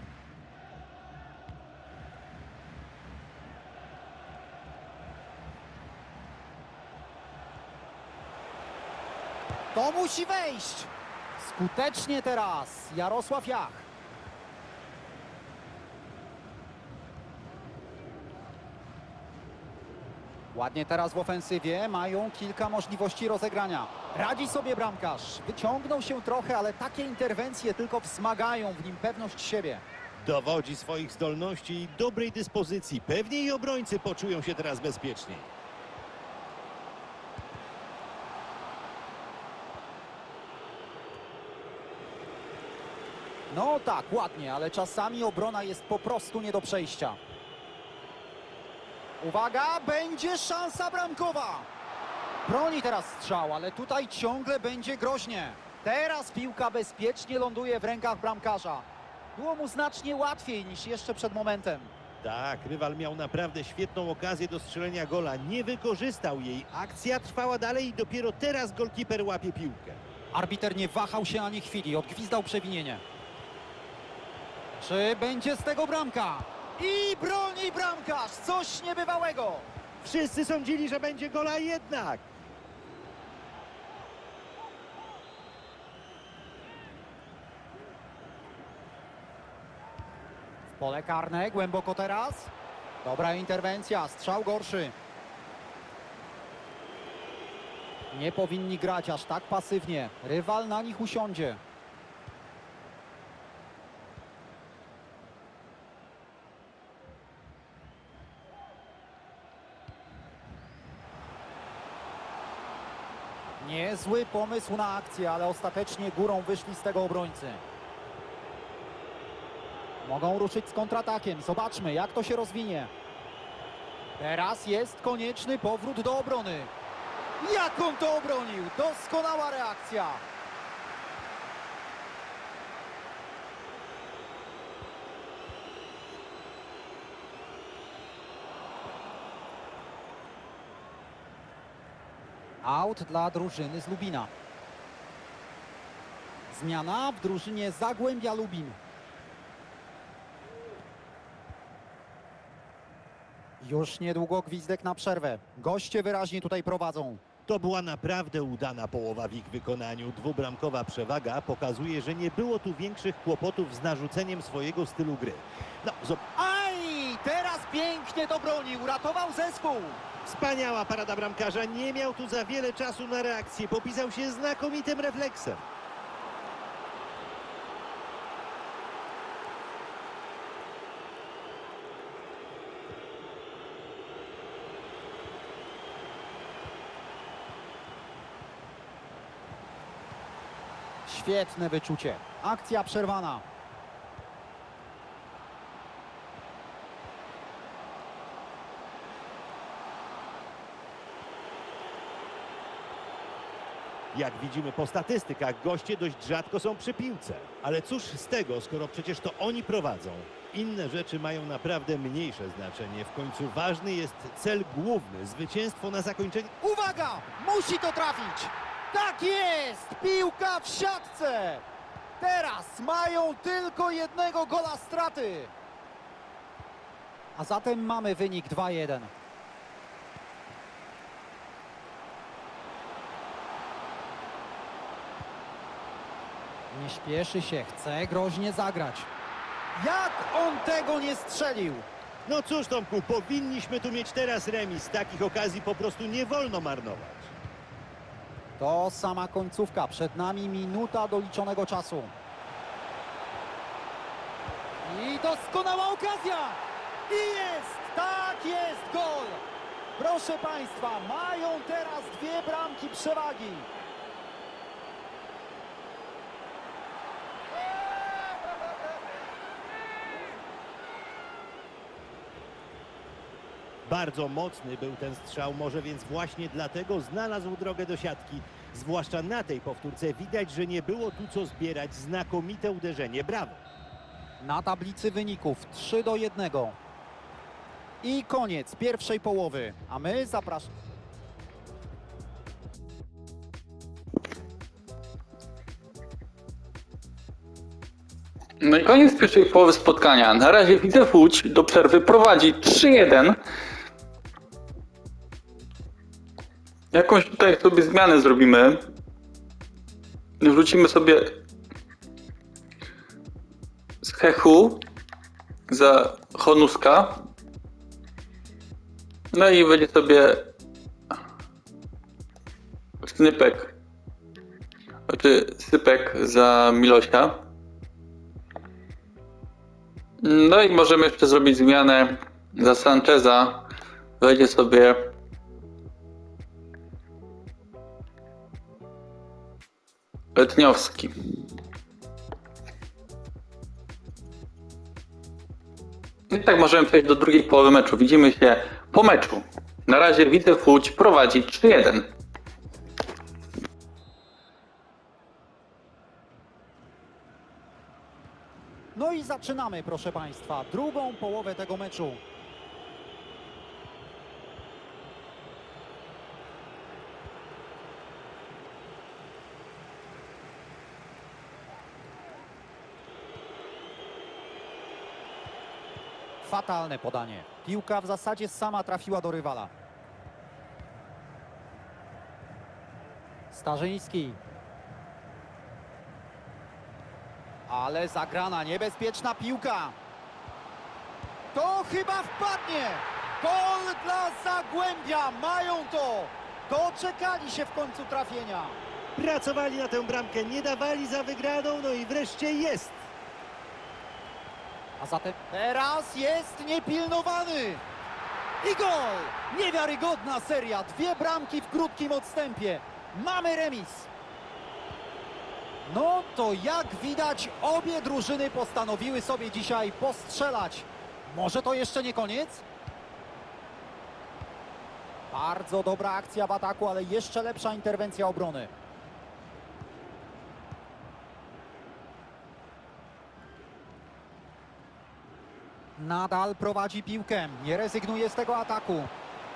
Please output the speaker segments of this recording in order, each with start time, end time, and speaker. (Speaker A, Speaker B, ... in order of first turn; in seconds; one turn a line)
Speaker A: 9.7-13.9
Speaker A: 20.5-29.8
Speaker B: 30.2-35.5
Speaker A: 43.5-47.2
Speaker A: 49.2-51.7
Speaker A: 52.5-61.9
Speaker B: 62.2-70.0
Speaker A: 70.3-73.0
Speaker A: 74.8-79.7
Speaker B: 80.0-82.3
Speaker A: 90.7-92.5
Speaker A: 93.0-94.9
Speaker A: 98.1-101.6
Speaker A: 113.6-117.6
Speaker A: 120.0-122.9
Speaker A: 124.2-126.7
Speaker A: 127.4-130.2
Speaker A: 142.6-144.3
Speaker A: 146.5-148.8
Speaker A: 153.6-157.2
Speaker B: 157.5-166.2
Speaker A: 166.4-170.0
Speaker B: 170.2-175.7
Speaker A: 191.1-193.4
Speaker B: 204.1-216.5
Speaker A: 216.6-221.6
Speaker A: 222.2-225.5
Speaker A: 227.4-229.1
Speaker A: 236.7-239.1
Speaker A: 239.8-241.9
Speaker B: 242.3-247.3
Speaker A: 248.6-252.1
Speaker A: 254.8-259.4
Speaker A: 260.0-263.7
Speaker B: 273.9-283.6
Speaker A: 284.4-286.8
Speaker A: 288.0-290.7
Speaker C: 298.6-303.4
Speaker C: 306.9-308.8
Speaker C: 310.4-311.4
Speaker C: 314.0-314.8
Speaker C: 315.7-317.2
Speaker C: 319.3-320.5
Speaker C: 323.0-323.7
Speaker C: 325.1-327.4
Speaker C: 330.2-333.6
Speaker C: 334.2-335.1
Speaker C: 340.4-341.1
Speaker C: 346.3-352.1
Speaker A: 358.9-362.2
Speaker A: 376.4-379.7
Speaker A: 383.5-384.4
Speaker A: 387.7-390.0
Speaker A: 391.5-398.8
Speaker B: 399.2-403.0
Speaker A: 405.0-407.8
Speaker A: 408.6-414.1
Speaker A: 415.8-422.6
Speaker A: 425.3-428.7
Speaker A: 436.0-439.1